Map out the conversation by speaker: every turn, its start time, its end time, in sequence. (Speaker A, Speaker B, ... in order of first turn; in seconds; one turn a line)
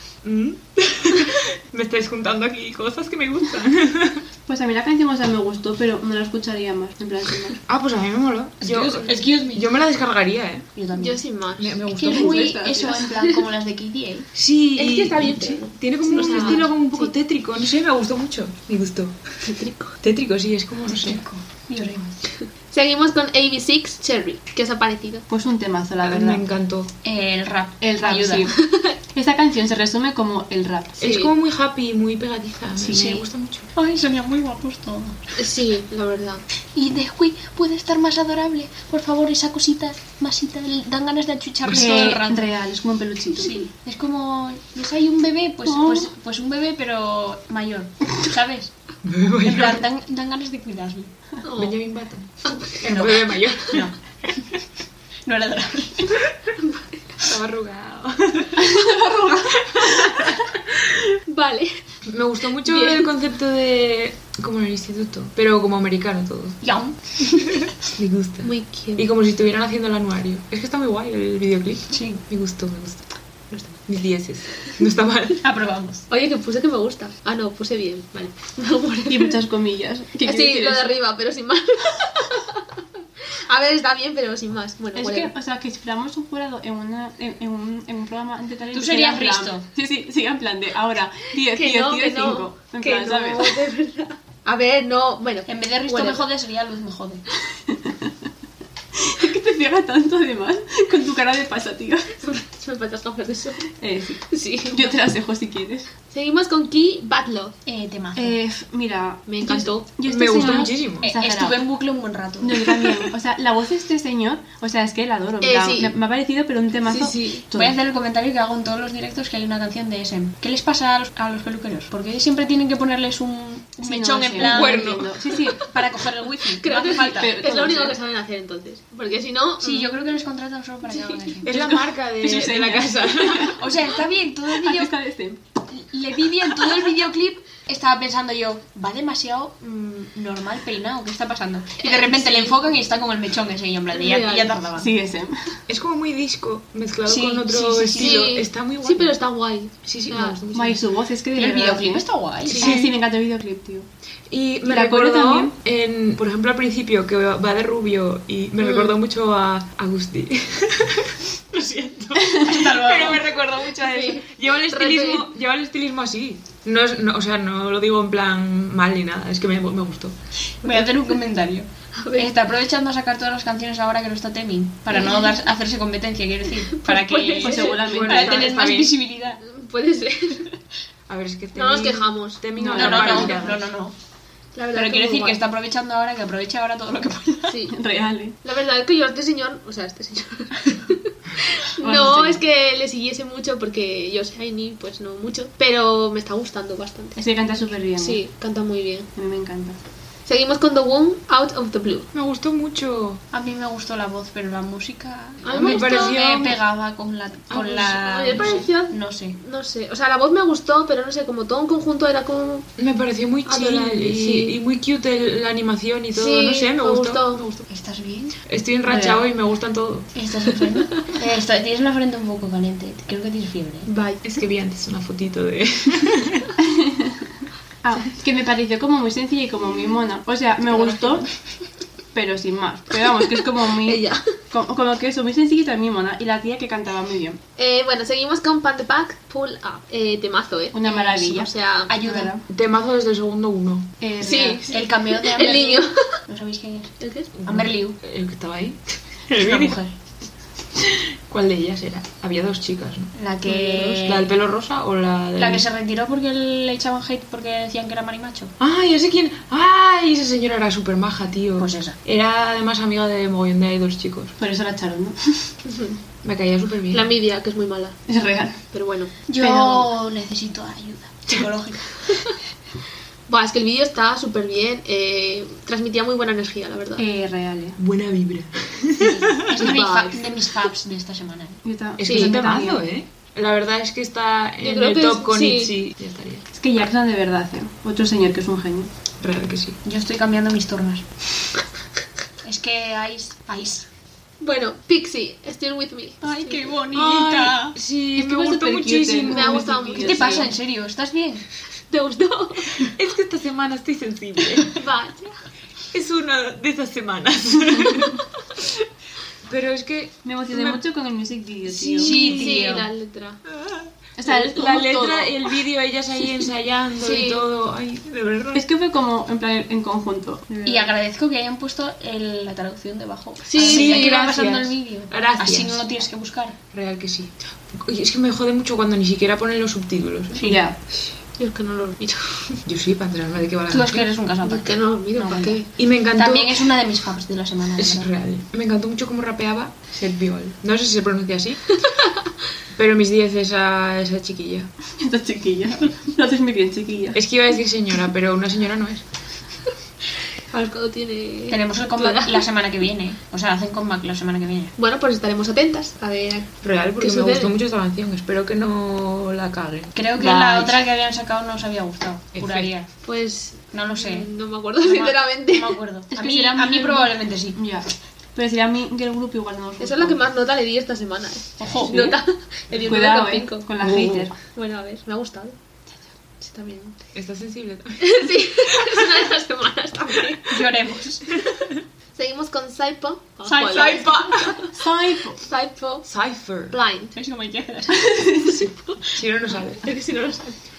Speaker A: 0.2-4.2
Speaker B: 4.5-7.6
Speaker A: 7.7-10.7
Speaker C: 8.6-9.7
Speaker C: 10.7-11.2
Speaker D: 10.9-11.8
Speaker A: 11.6-12.5
Speaker C: 11.9-14.3
Speaker B: 12.0-13.2
Speaker D: 13.0-13.4
Speaker A: 14.3-19.1
Speaker D: 14.8-17.1
Speaker D: 19.5-19.9
Speaker A: 20.0-21.2
Speaker C: 21.0-22.2
Speaker D: 22.7-25.2
Speaker B: 25.3-26.4
Speaker A: 26.0-26.9
Speaker C: 27.0-28.5
Speaker B: 27.8-28.5
Speaker D: 28.6-28.9
Speaker B: 29.1-30.9
Speaker D: 31.0-31.3
Speaker A: 31.0-33.7
Speaker C: 32.8-35.2
Speaker D: 35.4-36.4
Speaker C: 36.7-42.5
Speaker A: 41.6-42.0
Speaker B: 41.7-43.6
Speaker C: 43.4-48.7
Speaker B: 45.6-46.1
Speaker A: 49.0-49.8
Speaker C: 49.4-51.1
Speaker D: 51.4-51.8
Speaker A: 51.6-54.4
Speaker D: 52.4-53.1
Speaker C: 52.8-53.9
Speaker C: 55.2-56.3
Speaker D: 56.5-57.1
Speaker A: 57.2-58.7
Speaker B: 58.6-60.2
Speaker A: 60.1-60.4
Speaker D: 61.2-61.8
Speaker A: 62.0-66.6
Speaker D: 62.6-63.1
Speaker C: 66.6-67.6
Speaker A: 67.6-73.1
Speaker D: 68.4-69.0
Speaker C: 71.9-72.2
Speaker A: 73.8-75.4
Speaker C: 75.4-76.0
Speaker D: 76.1-79.3
Speaker B: 79.1-81.0
Speaker D: 80.2-85.3
Speaker B: 84.9-93.6
Speaker C: 88.7-89.6
Speaker D: 91.5-96.2
Speaker C: 95.5-97.2
Speaker B: 97.7-98.1
Speaker B: 99.0-102.1
Speaker D: 102.2-103.7
Speaker B: 103.8-105.9
Speaker D: 104.3-104.9
Speaker D: 106.1-107.5
Speaker C: 107.7-108.4
Speaker B: 108.1-111.6
Speaker D: 109.3-109.9
Speaker A: 110.0-111.1
Speaker C: 111.0-113.0
Speaker B: 112.4-117.8
Speaker D: 115.4-115.9
Speaker D: 116.8-117.4
Speaker C: 117.5-127.4
Speaker B: 123.8-125.7
Speaker A: 124.4-125.2
Speaker D: 126.4-130.0
Speaker B: 127.0-128.0
Speaker C: 129.6-131.5
Speaker A: 131.4-133.6
Speaker B: 131.4-133.6
Speaker C: 133.4-134.9
Speaker B: 134.6-135.4
Speaker C: 135.7-144.9
Speaker D: 141.8-142.6
Speaker D: 143.9-144.5
Speaker B: 144.7-145.6
Speaker A: 145.7-149.1
Speaker C: 147.1-148.2
Speaker D: 147.9-150.4
Speaker A: 149.8-150.8
Speaker B: 150.5-152.0
Speaker C: 151.3-152.7
Speaker D: 152.4-152.7
Speaker A: 152.6-152.9
Speaker B: 152.6-153.9
Speaker A: 154.3-170.2
Speaker B: 154.6-155.5
Speaker D: 158.6-158.9
Speaker B: 162.3-162.6
Speaker C: 162.4-163.2
Speaker D: 163.8-165.3
Speaker C: 170.6-179.4
Speaker D: 170.6-170.9
Speaker D: 171.9-172.3
Speaker D: 174.9-175.3
Speaker D: 176.7-177.9
Speaker B: 177.4-178.5
Speaker A: 177.8-179.0
Speaker D: 179.4-180.5
Speaker A: 181.1-183.6
Speaker D: 181.5-183.6
Speaker C: 182.7-183.9
Speaker D: 184.5-185.4
Speaker C: 184.7-187.6
Speaker D: 187.5-187.8
Speaker B: 187.7-188.4
Speaker D: 188.4-197.2
Speaker B: 191.8-192.4
Speaker B: 197.2-198.2
Speaker D: 198.0-199.1
Speaker B: 199.2-199.8
Speaker D: 200.2-202.1
Speaker A: 202.1-203.2
Speaker C: 203.3-209.4
Speaker D: 205.4-206.2
Speaker A: 205.5-206.6
Speaker A: 207.5-208.7
Speaker D: 207.9-212.7
Speaker A: 212.8-217.7
Speaker D: 213.4-214.6
Speaker D: 216.1-217.5
Speaker C: 217.7-218.3
Speaker A: 218.5-220.1
Speaker B: 218.9-219.2
Speaker C: 220.1-223.9
Speaker D: 223.8-224.2
Speaker A: 224.2-226.5
Speaker B: 226.6-227.2
Speaker B: 227.8-231.3
Speaker B: 232.1-237.4
Speaker D: 233.3-234.3
Speaker D: 237.6-241.9
Speaker B: 240.7-242.4
Speaker C: 241.9-242.3
Speaker A: 242.5-243.9
Speaker B: 244.0-244.7
Speaker D: 244.2-246.1
Speaker C: 244.7-248.0
Speaker D: 247.0-247.3
Speaker A: 247.4-249.8
Speaker C: 249.3-249.9
Speaker A: 250.8-255.6
Speaker C: 253.1-254.3
Speaker C: 255.4-258.5
Speaker A: 258.6-264.3
Speaker C: 261.6-261.9
Speaker B: 264.4-265.5
Speaker D: 265.7-266.0
Speaker A: 266.2-267.1
Speaker D: 266.9-268.0
Speaker B: 268.1-268.6
Speaker D: 268.7-269.1
Speaker C: 269.3-272.1
Speaker B: 269.4-269.9
Speaker D: 273.3-277.0
Speaker B: 277.0-277.8
Speaker A: 277.8-279.7
Speaker C: 279.0-281.6
Speaker D: 279.6-280.3
Speaker B: 281.6-282.8
Speaker A: 282.0-286.4
Speaker D: 282.1-282.4
Speaker D: 284.6-285.7
Speaker B: 286.5-288.9
Speaker A: 289.2-289.8
Speaker C: 289.8-291.0
Speaker C: 292.4-293.9
Speaker D: 294.4-296.7
Speaker C: 296.2-297.8
Speaker A: 296.9-299.8
Speaker B: 298.1-300.5
Speaker D: 299.3-300.5
Speaker C: 300.0-301.4
Speaker D: 301.9-302.9
Speaker A: 302.8-304.8
Speaker D: 304.7-305.3
Speaker A: 305.9-308.7
Speaker A: 309.4-310.8
Speaker B: 310.2-312.1
Speaker A: 311.7-312.7
Speaker C: 312.0-312.9
Speaker D: 312.1-313.4
Speaker A: 313.5-318.6
Speaker B: 314.2-315.4
Speaker D: 317.0-317.4
Speaker B: 318.5-320.9
Speaker C: 320.6-326.6
Speaker D: 323.4-324.2
Speaker A: 323.6-325.8
Speaker A: 326.7-330.4
Speaker B: 330.4-330.8
Speaker D: 331.4-332.6
Speaker A: 332.6-334.1
Speaker C: 333.7-338.1
Speaker D: 334.4-335.7
Speaker A: 335.8-336.7
Speaker A: 337.8-341.6
Speaker D: 341.7-342.3
Speaker A: 342.7-344.7
Speaker B: 345.0-347.2
Speaker A: 347.1-349.0
Speaker D: 350.5-352.4
Speaker C: 351.5-354.7
Speaker D: 354.8-357.5
Speaker A: 356.6-360.8
Speaker C: 359.9-362.9
Speaker A: 362.3-362.7
Speaker D: 363.0-365.8
Speaker C: 363.7-367.6
Speaker B: 366.1-370.2
Speaker D: 369.8-373.7
Speaker C: 371.6-371.9
Speaker B: 371.6-372.2
Speaker B: 372.8-374.3
Speaker A: 373.8-374.3
Speaker D: 374.4-375.6
Speaker D: 376.4-377.0
Speaker A: 377.1-379.2
Speaker D: 378.0-380.6
Speaker C: 380.5-381.2
Speaker D: 382.1-384.7
Speaker C: 383.4-384.4
Speaker A: 383.7-384.6
Speaker B: 384.7-385.4
Speaker D: 385.4-386.1
Speaker A: 386.0-386.7
Speaker D: 386.7-387.1
Speaker C: 387.1-388.4
Speaker B: 388.0-388.6
Speaker D: 388.4-389.2
Speaker A: 389.1-389.9
Speaker D: 389.8-390.6